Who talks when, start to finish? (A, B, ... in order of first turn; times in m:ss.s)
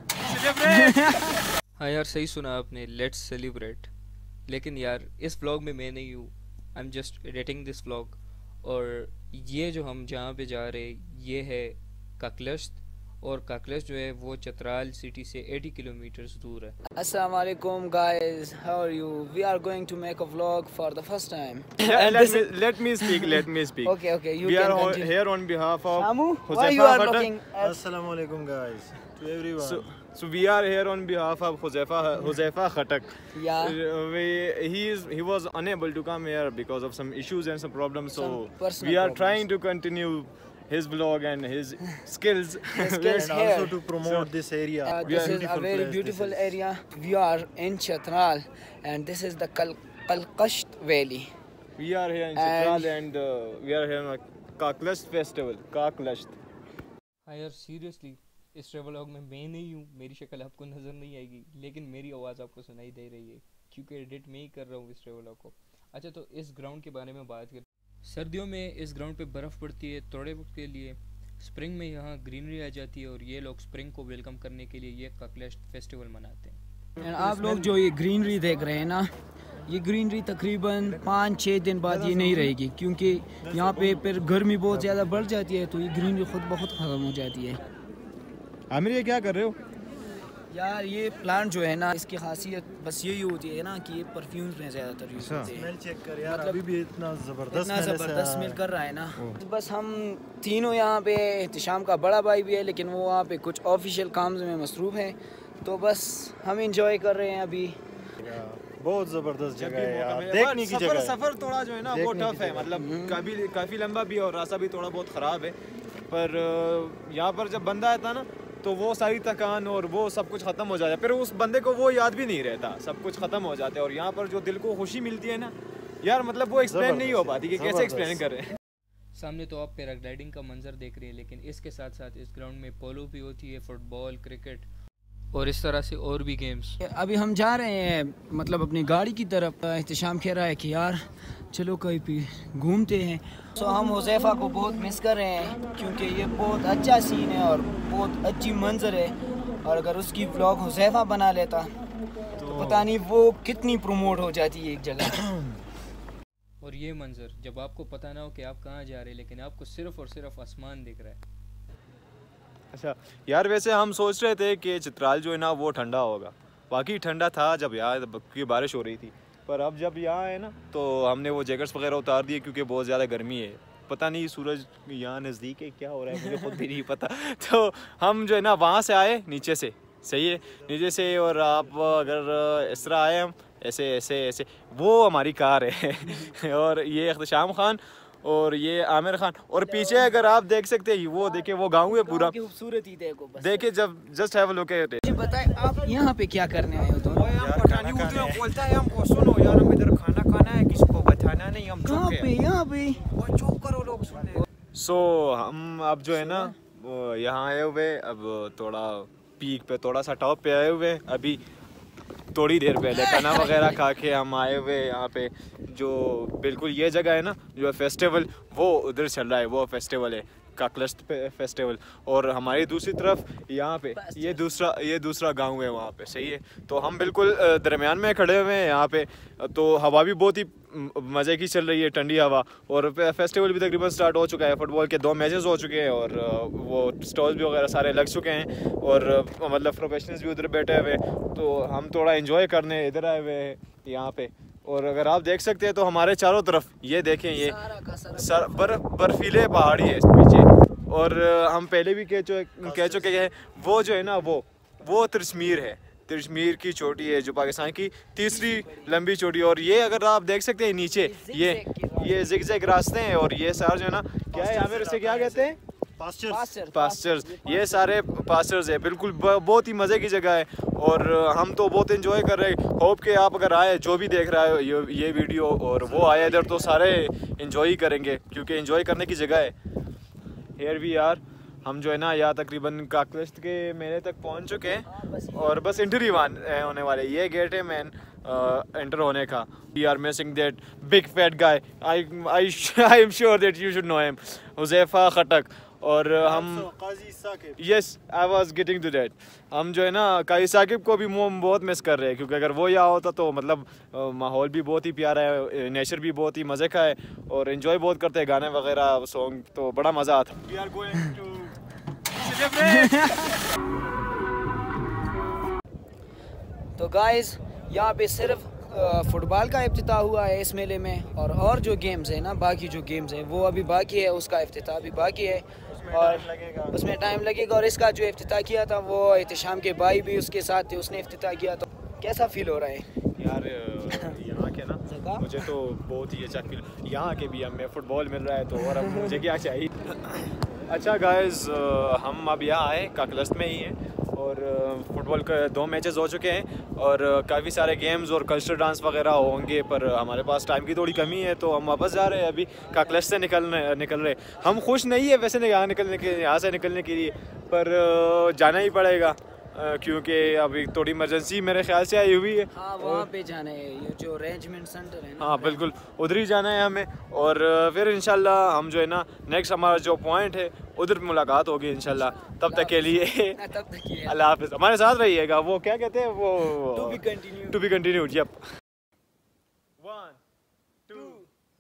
0:00.2-0:01.1 A
0:00.6-0:01.4 B
0:01.8-0:03.9 C
0:04.5-0:16.8 C
0:17.0-0:25.2 B
0:21.8-0:27.3 A
0:25.9-0:27.8 B
0:27.6-0:29.9 D
0:29.6-0:43.3 A
0:33.3-0:33.8 B
0:38.1-0:39.5 B
0:42.7-0:43.8 B
0:43.2-0:46.5 D
0:44.0-0:44.3 A
0:44.8-0:51.3 B
0:45.0-0:45.8 A
0:51.8-0:56.4 A
0:52.4-0:53.0 B
0:57.3-1:16.6 C
1:17.0-1:19.1 B
1:17.1-1:17.5 D
1:19.7-1:27.6 B
1:21.9-1:22.5 A
1:23.4-1:25.3 D
1:28.7-1:29.6 A
1:30.5-1:35.7 B
1:35.2-1:35.5 A
1:35.5-1:38.6 D
1:36.2-1:36.6 B
1:37.5-1:47.8 B
1:48.2-1:51.2 D
1:49.6-1:55.6 A
1:51.8-1:52.7 D
1:52.7-1:53.2 B
1:56.1-2:08.6 A
2:06.6-2:08.2 D
2:09.2-2:14.7 C
2:15.3-2:16.8 C
2:16.8-2:21.0 B
2:21.5-2:31.7 B
2:32.4-2:32.9 A
2:32.5-2:35.5 B
2:36.6-2:41.2 C
2:42.7-3:12.3 A
2:56.2-2:56.6 B
3:00.4-3:02.1 D
3:09.6-3:10.1 B
3:11.8-3:13.7 B
3:13.4-3:15.0 A
3:15.0-3:17.3 B
3:17.0-3:22.3 A
3:17.3-3:18.5 D
3:21.8-3:23.1 B
3:23.1-3:31.4 A
3:26.1-3:26.6 B
3:32.3-4:07.6 A
3:32.9-3:33.8 B
3:43.9-3:44.6 B
4:07.3-4:08.9 B
4:08.2-4:25.6 A
4:12.6-4:13.3 D
4:18.2-4:19.0 B
4:21.0-4:22.4 B
4:24.3-4:26.5 D
4:26.3-4:28.1 B
4:26.7-4:39.6 A
4:35.8-4:37.0 B
4:40.6-4:56.7 A
4:44.6-4:46.5 B
4:56.2-4:57.6 D
4:57.6-5:11.6 A
5:12.1-5:13.0 A
5:12.6-5:13.5 B
5:16.8-5:32.9 B
5:25.7-5:26.9 D
5:33.2-6:03.1 A
5:33.9-5:34.2 B
5:34.9-5:35.5 B
5:38.6-5:39.2 B
5:52.6-5:53.1 B
6:02.5-6:05.6 B
6:05.2-6:13.4 A
6:12.3-6:14.2 B
6:14.1-6:18.4 A
6:16.7-6:17.6 B
6:19.8-6:20.2 A
6:20.9-6:21.2 A
6:20.9-6:21.3 B